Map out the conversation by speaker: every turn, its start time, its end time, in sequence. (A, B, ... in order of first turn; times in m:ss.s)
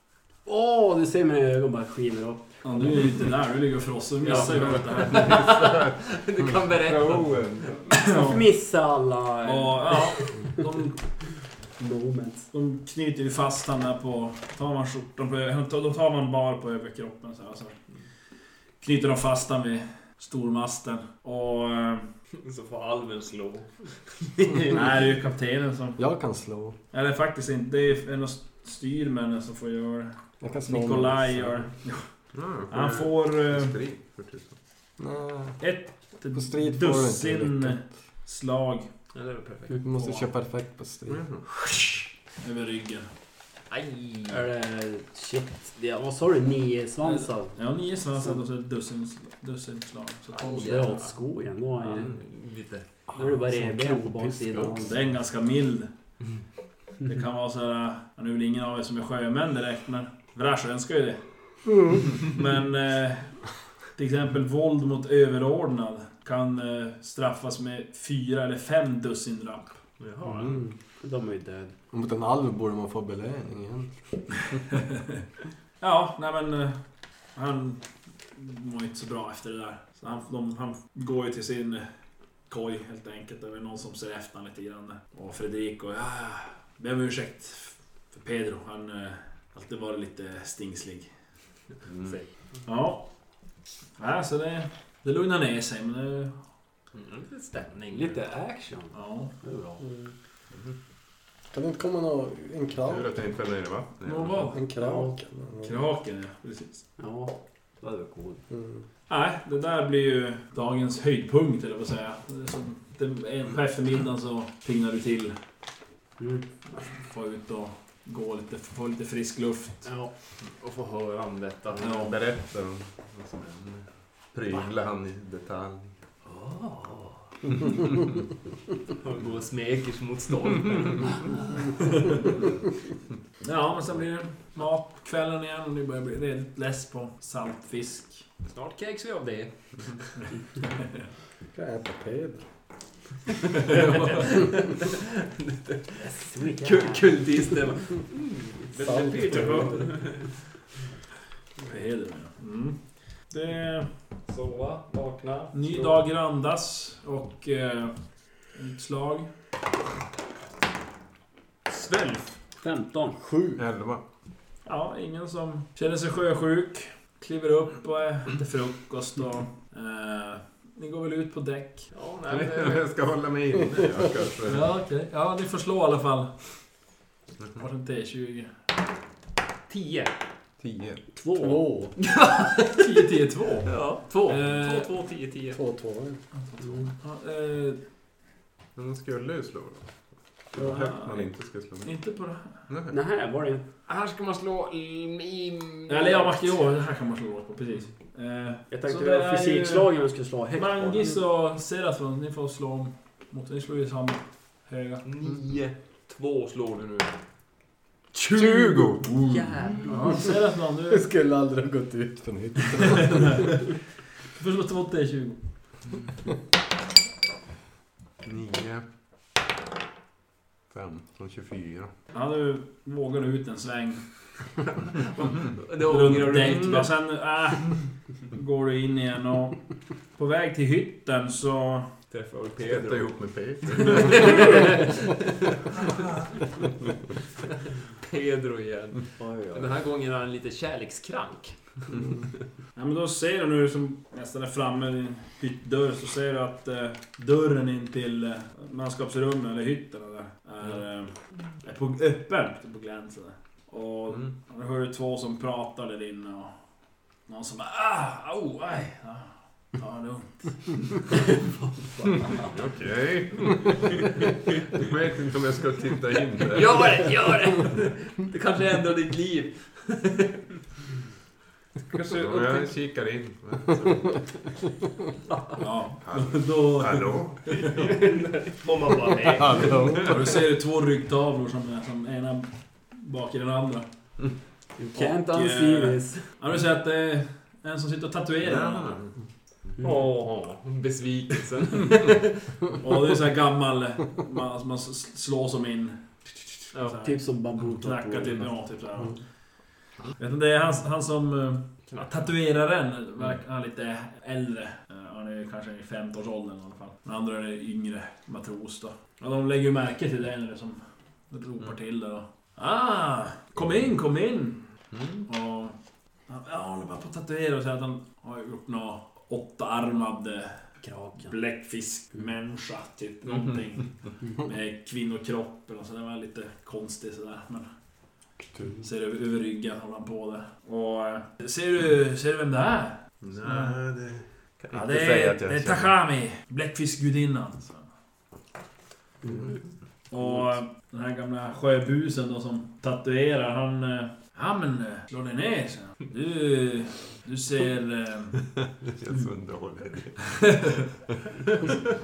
0:00.4-0:03.1 A
0:02.6-0:05.4 B
0:04.2-0:07.8 C
0:04.6-0:06.0 D
0:06.7-0:07.8 D
0:07.9-0:08.4 B
0:08.0-0:10.6 A
0:09.4-0:11.0 B
0:11.8-0:12.5 A
0:12.5-0:17.8 B
0:18.8-0:22.1 B
0:22.4-0:24.9 C
0:24.7-0:26.0 B
0:26.0-0:26.8 E
0:26.9-0:30.1 B
0:30.4-0:31.6 E
0:30.6-0:32.0 B
0:32.3-0:34.6 D
0:32.7-0:33.8 B
0:35.0-0:35.6 E
0:35.6-0:38.9 B
0:36.3-0:37.8 E
0:39.1-0:39.8 C
0:39.8-0:41.2 E
0:41.1-0:41.4 D
0:42.4-0:43.1 B
0:43.7-0:44.4 C
0:44.3-0:47.6 A
0:47.0-0:51.0 B
0:50.4-0:51.1 C
0:50.4-0:52.1 A
0:51.8-0:52.9 C
0:53.1-0:54.9 A
0:54.8-0:55.9 B
0:57.0-1:01.2 B
1:02.1-1:03.4 B
1:04.0-1:09.8 B
1:10.0-1:10.6 C
1:11.0-1:11.7 A
1:11.9-1:13.9 E
1:15.8-1:16.8 B
1:17.3-1:21.9 B
1:22.5-1:31.1 B
1:31.9-1:32.2 D
1:32.6-1:33.0 B
1:34.0-1:36.4 B
1:36.9-1:38.2 C
1:37.9-1:39.8 A
1:38.9-1:39.3 B
1:41.5-1:43.1 E
1:42.9-1:44.5 D
1:44.0-1:45.0 B
1:44.5-1:45.7 E
1:45.6-1:46.8 B
1:47.0-1:48.4 A
1:48.5-1:48.8 E
1:49.1-1:55.4 B
1:56.2-1:56.4 A
1:56.9-1:59.9 B
1:59.8-2:00.1 A
2:00.4-2:01.9 C
2:01.8-2:02.2 B
2:01.8-2:05.9 D
2:09.0-2:11.4 C
2:13.4-2:18.2 B
2:18.5-2:20.1 C
2:20.7-2:21.0 B
2:21.5-2:22.4 E
2:23.6-2:24.3 B
2:23.6-2:26.0 C
2:26.0-2:27.1 A
2:26.6-2:30.3 C
2:28.8-2:29.8 E
2:31.6-2:32.8 B
2:33.3-2:33.9 B
2:34.3-2:35.9 C
2:35.5-2:39.3 B
2:41.7-2:42.3 C
2:42.6-2:43.2 A
2:43.2-2:43.6 E
2:43.6-2:44.0 D
2:44.6-2:51.9 B
2:51.9-2:52.8 C
2:52.3-2:54.7 D
2:54.4-2:56.3 B
2:57.6-2:58.5 B
2:59.7-3:00.1 C
3:00.6-3:01.0 D
3:01.2-3:01.7 A
3:01.4-3:02.0 E
3:02.1-3:02.8 C
3:02.6-3:04.9 B
3:03.6-3:05.6 C
3:05.5-3:06.2 E
3:06.5-3:07.8 B
3:08.8-3:09.9 D
3:10.5-3:11.9 D
3:10.6-3:11.3 B
3:11.8-3:12.6 B
3:12.7-3:13.0 D
3:12.9-3:13.6 A
3:13.9-3:16.5 C
3:15.9-3:19.9 B
3:18.7-3:21.2 A
3:20.5-3:25.0 B
3:25.0-3:27.1 C
3:28.2-3:28.7 C
3:28.3-3:29.8 D
3:29.3-3:29.9 A
3:29.8-3:31.1 B
3:30.8-3:33.4 E
3:32.7-3:33.6 B
3:34.3-3:35.4 B
3:38.2-3:38.9 D
3:40.7-3:41.9 D
3:42.1-3:44.0 B
3:45.4-3:46.9 C
3:45.8-3:51.9 B
3:52.1-3:53.2 C
3:52.7-3:54.7 D
3:53.8-3:55.3 C
3:58.0-4:02.1 C
3:59.2-3:59.8 A
4:02.8-4:16.6 B
4:17.3-4:21.1 B
4:21.9-4:22.5 A
4:22.4-4:26.8 D
4:26.5-4:30.4 C
4:31.9-4:32.7 C
4:32.1-4:34.2 D
4:35.6-4:37.7 B
4:36.0-4:38.0 D
4:37.7-4:39.8 C
4:39.2-4:40.3 E
4:40.0-4:43.9 B
4:44.8-4:46.2 A
4:44.9-4:49.1 B
4:48.4-4:49.1 D
4:49.8-4:52.5 C
4:52.8-4:59.2 B
4:57.0-4:58.5 A
5:00.2-5:14.7 B
5:14.9-5:15.2 D
5:15.2-5:15.8 B
5:16.3-5:27.7 B
5:20.8-5:21.3 A
5:28.8-5:33.8 B
5:33.2-5:35.9 D
5:34.7-5:37.9 B
5:40.1-5:48.4 B
5:48.8-5:51.2 D
5:50.4-5:50.7 B